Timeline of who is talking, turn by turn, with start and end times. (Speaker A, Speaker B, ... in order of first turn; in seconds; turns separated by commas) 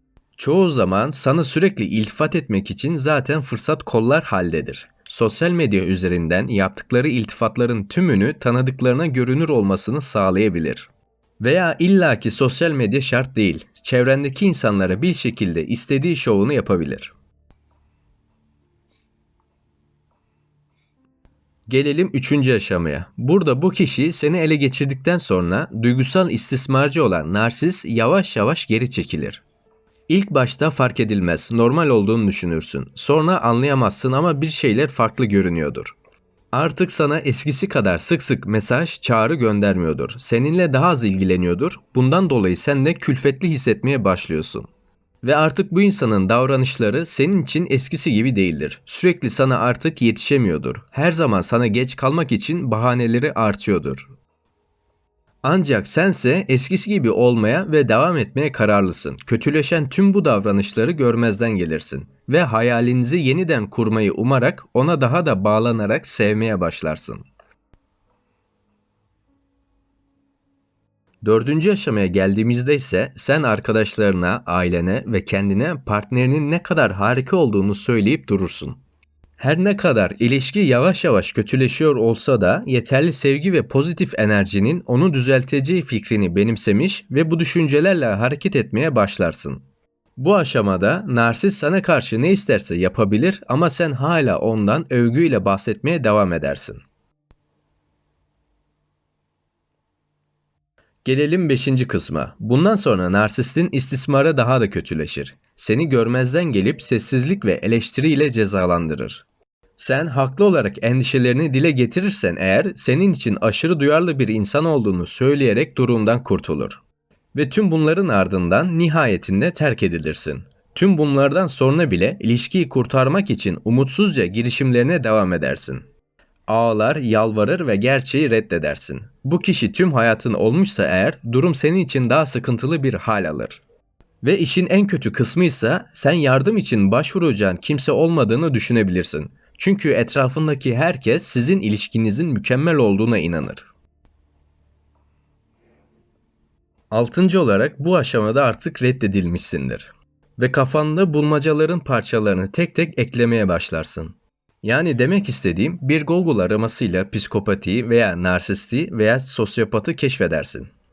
Speaker A: 0.4-17.1, Speaker A: 21.7-29.4, Speaker A: 30.1-35.9, Speaker A: 36.5-44.7, Speaker A: 45.2-54.1, Speaker A: 55.4-67.2, Speaker A: 71.2-78.8, Speaker A: 79.4-89.6, Speaker A: 90.2-96.8, Speaker A: 101.0-109.2, Speaker A: 109.8-116.8, Speaker A: 117.3-125.8, Speaker A: 126.5-133.6, Speaker A: 134.2-143.7, Speaker A: 146.9-160.7